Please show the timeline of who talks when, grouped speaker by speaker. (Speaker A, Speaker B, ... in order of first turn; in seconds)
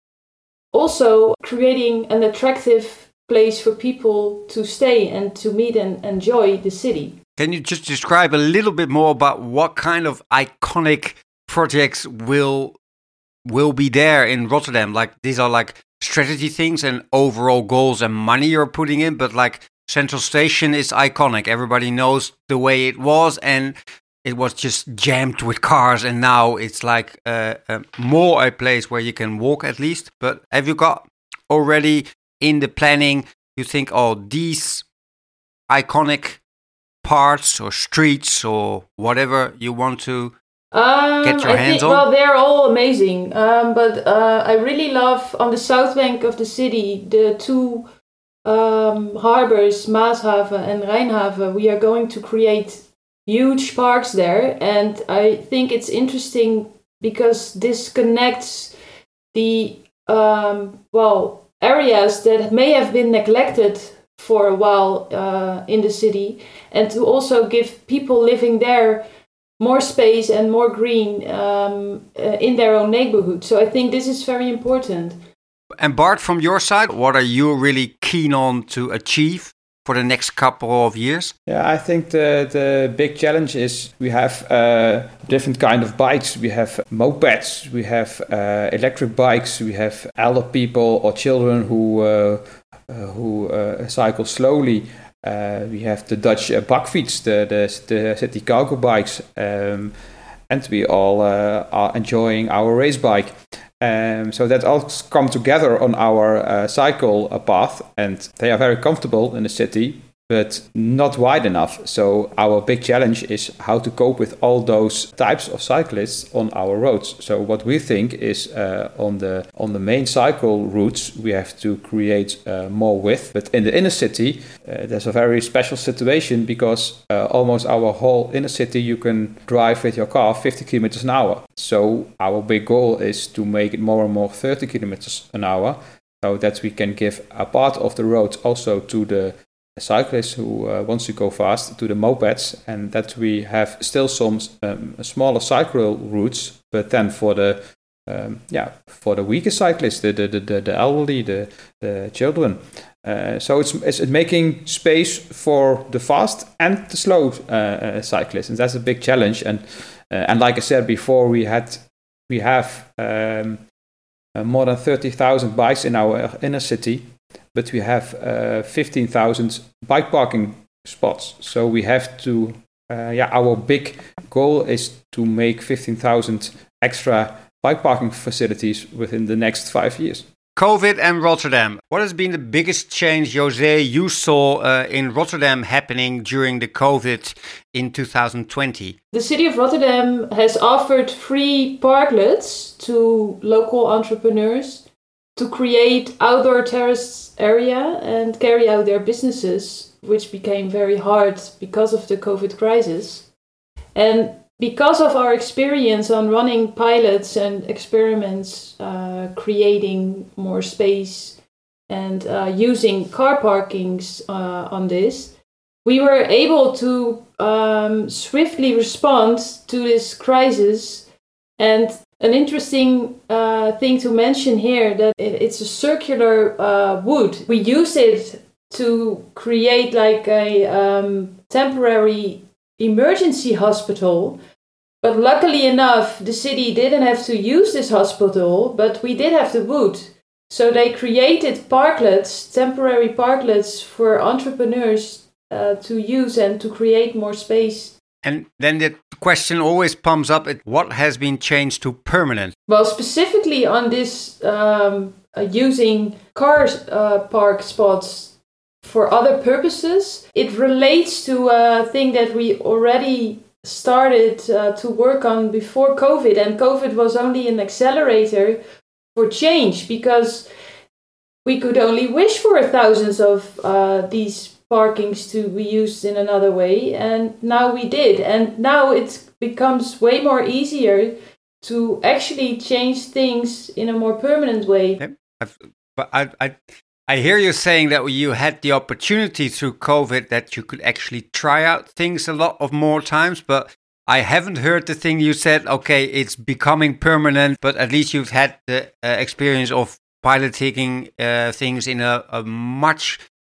Speaker A: 0.7-7.2, 40.7-47.9, 48.4-58.7, 59.3-69.0, 69.6-75.2, 189.1-194.8, 195.3-203.3, 203.9-221.1, 221.6-234.4, 235.0-247.9, 252.7-268.6, 269.1-270.5, 271.4-285.0
Speaker B: 7.4-12.8, 13.4-34.8, 35.7-36.4, 37.0-40.3, 41.2-42.0, 75.8-81.3, 180.6-188.9, 248.2-252.5, 285.0-286.6, 287.1-303.2
Speaker C: 81.5-99.9, 100.5-163.6, 164.3-180.2